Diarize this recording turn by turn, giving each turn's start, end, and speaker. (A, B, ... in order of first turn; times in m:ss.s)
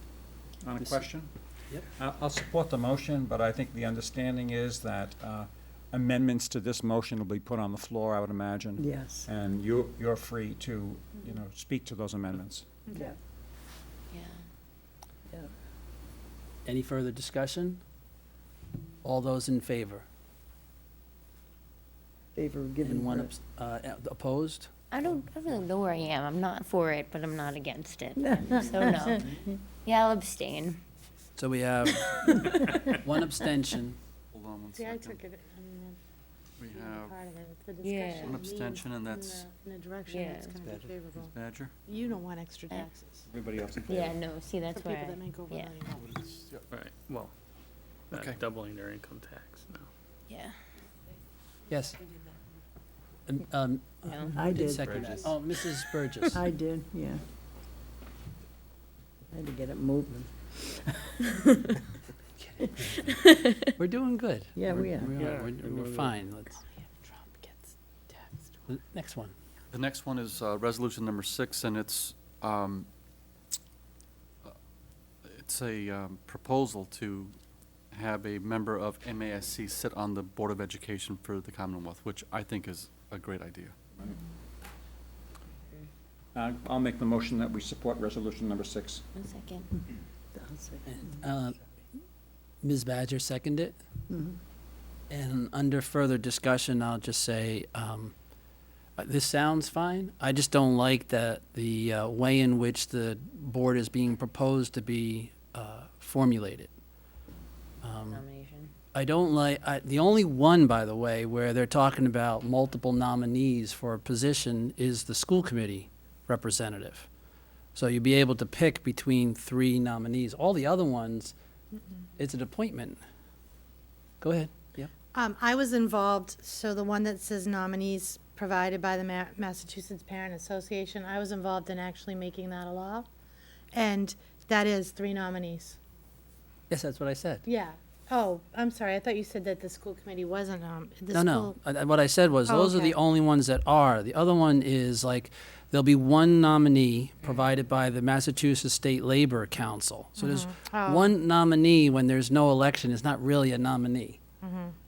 0:00.6-0:01.3 A
0:02.0-0:12.7 A
0:08.8-0:09.3 B
0:14.1-0:14.4 C
0:16.6-0:17.8 D
0:19.0-0:20.0 D
0:22.4-0:23.4 B
0:22.8-0:24.7 D
0:24.9-0:30.8 C
0:28.2-0:29.0 B
0:31.4-0:34.0 D
0:34.3-0:35.2 E
0:34.8-0:36.0 F
0:36.6-0:37.2 E
0:36.7-0:43.3 F
0:37.8-0:38.4 C
0:38.2-0:39.5 E
0:40.1-0:40.6 C
0:41.2-0:41.7 E
0:43.3-0:44.1 A
0:43.9-0:45.8 C
0:44.7-0:46.0 F
0:45.9-0:46.7 E
0:46.7-0:47.3 G
0:48.1-0:49.9 G
0:48.1-0:48.4 E
0:50.3-0:50.6 C
0:51.7-0:52.0 D
0:53.3-0:56.4 D
0:54.0-0:54.5 C
0:54.4-0:54.8 B
0:54.8-0:55.4 E
0:56.4-0:57.2 B
0:59.3-1:00.8 B
1:02.4-1:06.7 D
1:03.0-1:03.6 C
1:04.6-1:05.1 B
1:05.2-1:06.1 G
1:08.7-1:09.3 D
1:09.7-1:12.9 E
1:15.2-1:17.4 E
1:17.9-1:23.8 E
1:26.4-1:29.0 A
1:29.2-1:29.7 C
1:30.3-1:31.1 B
1:30.9-1:31.6 D
1:32.6-1:33.8 D
1:34.1-1:34.4 B
1:35.1-1:38.1 D
1:39.0-1:46.7 D
1:47.8-1:48.2 D
1:47.9-1:48.7 C
1:48.9-1:57.1 D
1:57.8-2:01.3 D
2:02.2-2:03.0 D
2:04.2-2:04.9 D
2:05.1-2:13.1 F
2:13.7-2:15.8 F
2:16.7-2:17.4 D
2:17.4-2:21.6 F
2:21.1-2:34.2 D
2:22.5-2:23.0 F
2:30.2-2:31.1 F
2:34.4-2:34.8 F